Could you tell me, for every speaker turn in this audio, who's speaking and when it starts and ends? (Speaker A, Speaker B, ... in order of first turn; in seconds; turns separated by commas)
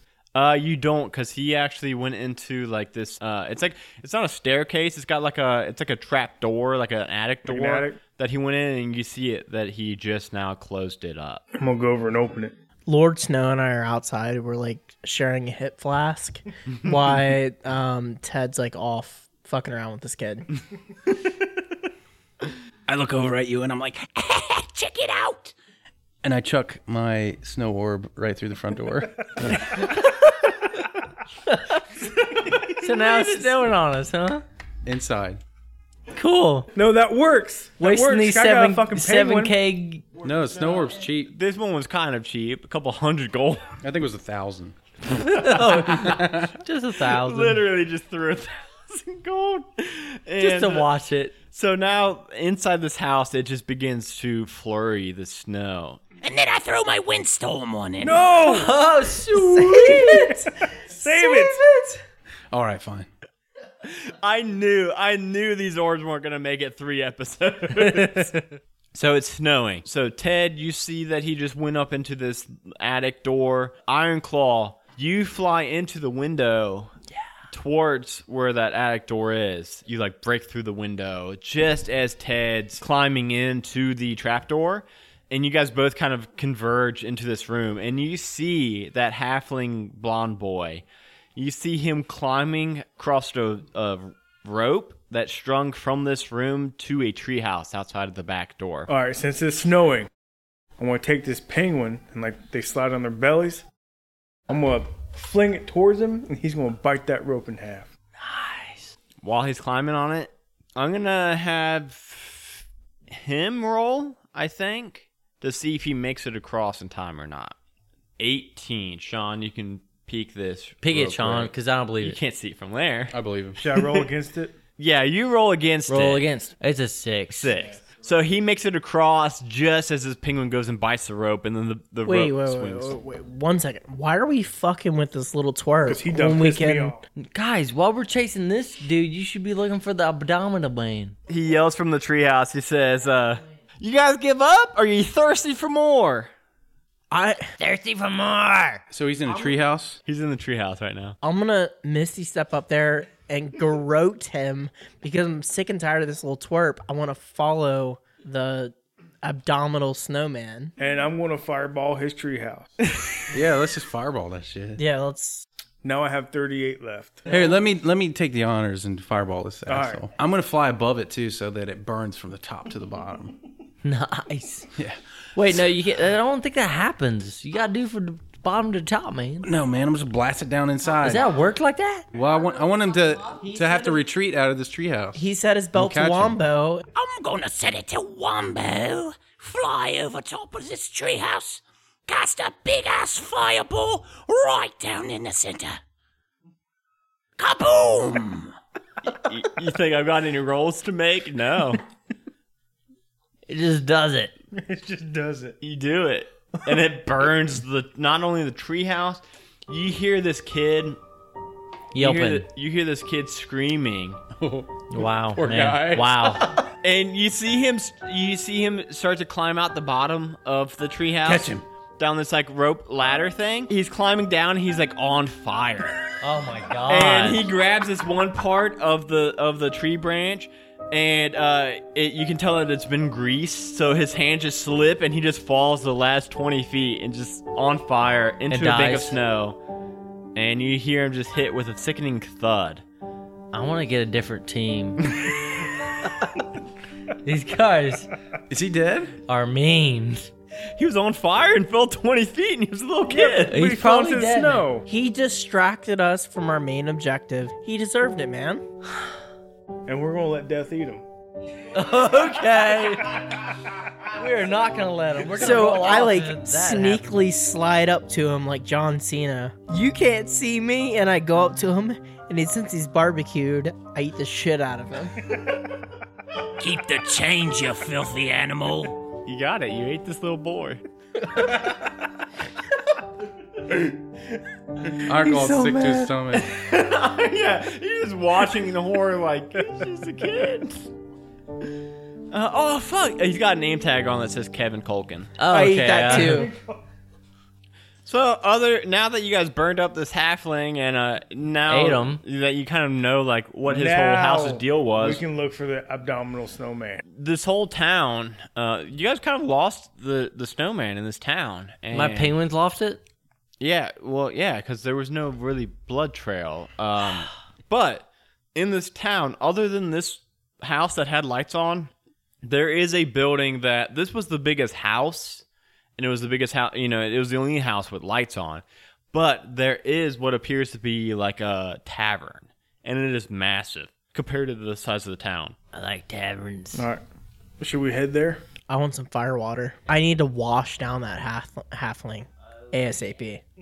Speaker A: 0.3-11.4, Speaker B: 7.5-8.0, Speaker B: 11.6-12.6, Speaker C: 12.9-20.5, Speaker D: 22.9-24.2, Speaker E: 24.2-25.5, Speaker D: 26.2-29.9, Speaker F: 31.5-31.8, Speaker F: 32.7-34.4, Speaker D: 34.9-35.4, Speaker F: 36.1-36.7, Speaker B: 36.8-39.5, Speaker F: 37.8-40.0, Speaker D: 40.2-41.3, Speaker A: 41.3-43.7, Speaker D: 43.8-46.5, Speaker F: 45.3-47.6, Speaker A: 47.1-50.9, Speaker F: 50.4-51.4, Speaker A: 51.5-56.0, Speaker E: 56.2-58.2, Speaker B: 58.0-58.9, Speaker F: 58.4-60.4, Speaker B: 59.5-61.7, Speaker C: 59.6-60.3, Speaker F: 61.1-61.7, Speaker D: 62.5-63.1, Speaker A: 63.9-68.3, Speaker F: 67.9-68.4, Speaker A: 68.9-76.9, Speaker A: 77.5-90.8, Speaker A: 91.4-98.9, Speaker B: 98.9-100.1, Speaker B: 100.8-103.7, Speaker B: 104.5-107.9, Speaker F: 108.2-108.9, Speaker A: 109.2-117.6, Speaker A: 118.2-123.1, Speaker F: 120.8-122.2, Speaker D: 123.1-123.9, Speaker B: 123.6-124.5, Speaker A: 124.8-126.2, Speaker F: 125.9-127.5, Speaker A: 127.3-132.9, Speaker C: 132.1-136.9, Speaker B: 135.8-137.0, Speaker F: 137.3-141.2, Speaker A: 141.3-146.3, Speaker C: 147.1-147.6, Speaker F: 147.6-148.8, Speaker E: 148.4-148.8, Speaker D: 148.9-150.0, Speaker A: 150.1-151.2, Speaker C: 151.2-160.7, Speaker B: 160.8-162.8, Speaker D: 163.3-164.8, Speaker C: 164.8-165.4, Speaker B: 165.8-167.3, Speaker D: 167.3-173.3, Speaker B: 169.7-170.0, Speaker F: 173.8-174.7, Speaker F: 175.3-179.5, Speaker D: 179.4-181.3, Speaker F: 181.0-182.1, Speaker D: 182.1-185.2, Speaker C: 185.2-186.8, Speaker D: 185.8-186.4, Speaker E: 186.9-195.8, Speaker E: 197.4-198.4, Speaker A: 199.1-201.8, Speaker F: 203.5-204.3, Speaker B: 204.5-205.6, Speaker A: 205.6-211.0, Speaker F: 211.9-212.5, Speaker A: 212.0-214.2, Speaker D: 214.3-216.6, Speaker F: 214.9-216.5, Speaker A: 216.8-226.0, Speaker D: 221.2-221.6, Speaker F: 226.2-227.5, Speaker A: 226.9-239.6, Speaker F: 238.5-239.2, Speaker A: 240.4-242.8, Speaker F: 243.5-245.2, Speaker F: 247.2-248.1, Speaker D: 248.5-249.2, Speaker F: 249.3-250.3, Speaker A: 250.8-253.6, Speaker B: 253.1-254.9, Speaker F: 253.5-254.7, Speaker C: 254.9-258.6, Speaker B: 259.9-261.1, Speaker F: 261.7-263.3, Speaker F: 264.1-267.1, Speaker C: 265.2-275.1, Speaker E: 276.6-279.0, Speaker A: 279.2-280.8, Speaker D: 285.0-286.5, Speaker F: 285.2-286.1, Speaker A: 286.4-290.9, Speaker A: 292.3-296.2, Speaker F: 295.4-296.5, Speaker C: 295.5-296.5, Speaker B: 296.2-296.8, Speaker A: 298.1-305.2, Speaker F: 301.7-302.2, Speaker B: 303.7-307.0, Speaker A: 307.1-312.3, Speaker F: 311.9-313.0, Speaker A: 313.6-321.9, Speaker A: 322.4-325.4, Speaker A: 326.0-335.6, Speaker F: 335.7-336.9, Speaker B: 336.7-337.0, Speaker B: 337.6-338.4, Speaker C: 338.7-343.4